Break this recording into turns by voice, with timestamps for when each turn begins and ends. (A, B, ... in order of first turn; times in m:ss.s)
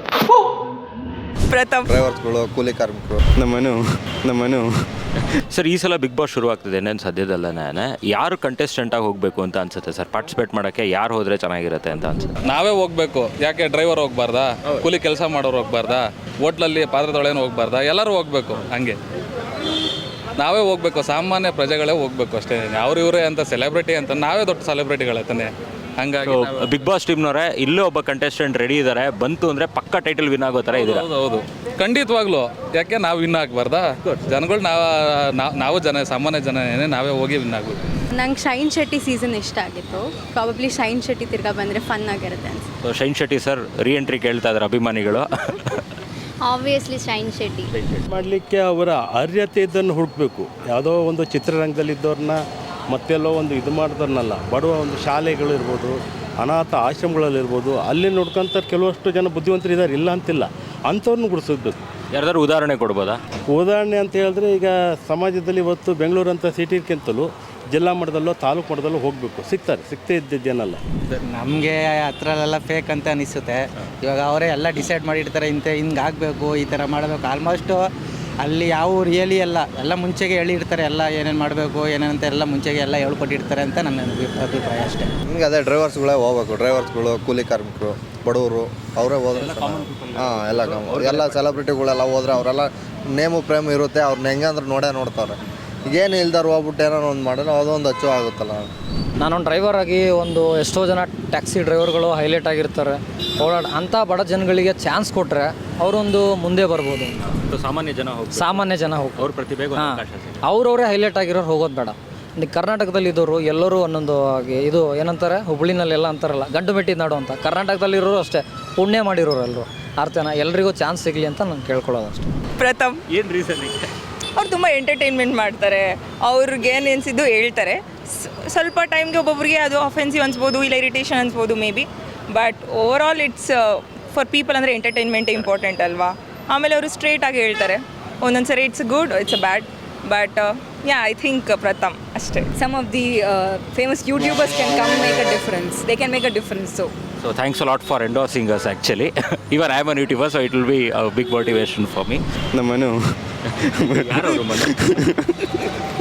0:01.5-0:01.9 A
0:01.9-0:03.2 B
0:03.4-0:04.7 C
0:05.5-0:12.3 D
0:12.4-0:19.0 E
0:20.4-0:26.9 E
0:26.2-0:31.0 D
0:30.7-0:37.8 E
0:38.1-0:42.7 F
0:42.8-0:45.8 D
0:46.5-0:47.7 F
0:48.1-0:52.4 G
0:52.9-1:01.8 G
1:02.1-1:03.2 D
1:03.5-1:10.8 G
1:11.2-1:17.8 H
1:18.4-1:25.1 H
1:25.3-1:38.7 B
1:29.6-1:30.4 G
1:39.2-1:47.2 I
1:47.4-1:50.4 D
1:48.3-2:02.3 I
2:02.6-2:03.0 A
2:03.1-2:03.9 D
2:04.4-2:22.6 A
2:22.6-2:26.9 J
2:25.9-2:26.4 A
2:27.2-2:32.2 D
2:32.5-2:33.0 C
2:33.6-2:35.4 C
2:34.0-2:34.9 D